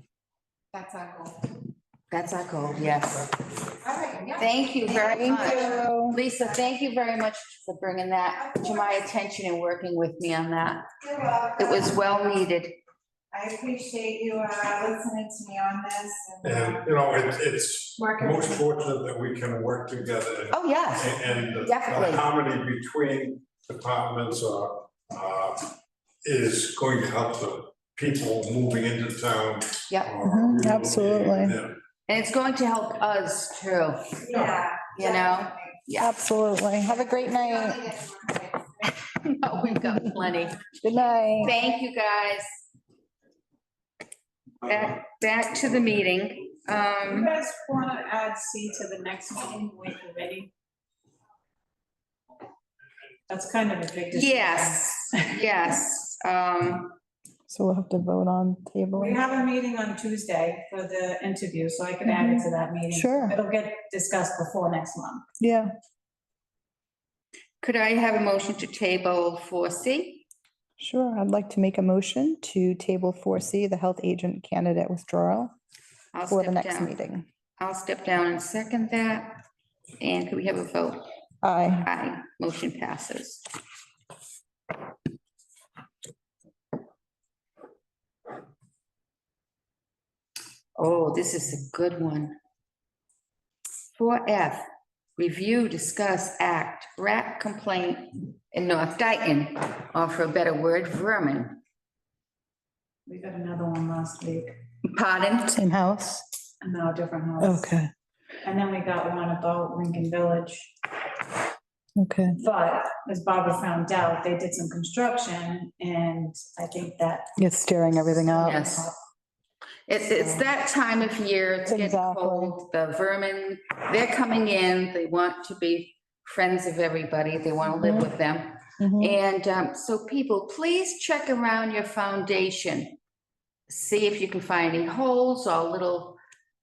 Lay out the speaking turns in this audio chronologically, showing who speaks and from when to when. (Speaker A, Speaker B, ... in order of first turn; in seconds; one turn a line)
Speaker A: 0.7-1.4
Speaker B: 2.1-3.3
Speaker A: 3.9-4.4
Speaker B: 4.3-10.9
Speaker A: 5.1-5.9
Speaker A: 11.1-11.5
Speaker B: 11.5-12.7
Speaker A: 13.3-16.4
Speaker C: 16.4-25.7
Speaker B: 20.5-22.2
Speaker C: 26.2-31.7
Speaker D: 30.2-31.6
Speaker B: 32.1-36.1
Speaker A: 34.3-34.9
Speaker D: 36.0-37.9
Speaker A: 37.4-38.6
Speaker B: 38.9-40.6
Speaker D: 40.8-41.5
Speaker B: 41.4-42.4
Speaker B: 44.6-47.3
Speaker E: 47.0-50.5
Speaker E: 53.3-55.3
Speaker B: 54.1-57.0
Speaker D: 57.5-59.2
Speaker E: 58.9-65.2
Speaker D: 62.1-63.4
Speaker D: 65.4-65.7
Speaker B: 67.6-70.2
Speaker D: 70.8-75.5
Speaker B: 76.1-76.9
Speaker D: 76.3-77.2
Speaker B: 77.6-79.3
Speaker B: 80.0-81.0
Speaker D: 81.4-81.9
Speaker B: 81.8-83.4
Speaker B: 90.8-92.3
Speaker B: 93.9-94.6
Speaker B: 95.2-101.6
Speaker E: 103.1-104.5
Speaker B: 104.9-105.5
Speaker D: 105.5-106.2
Speaker E: 106.6-107.7
Speaker D: 107.4-107.9
Speaker E: 108.4-110.8
Speaker D: 112.0-112.4
Speaker E: 112.3-117.3
Speaker D: 117.4-118.6
Speaker E: 118.1-118.9
Speaker B: 118.3-118.9
Speaker B: 119.9-132.9
Speaker D: 121.7-122.6
Speaker D: 127.8-128.1
Speaker D: 128.8-129.2
Speaker B: 133.7-136.2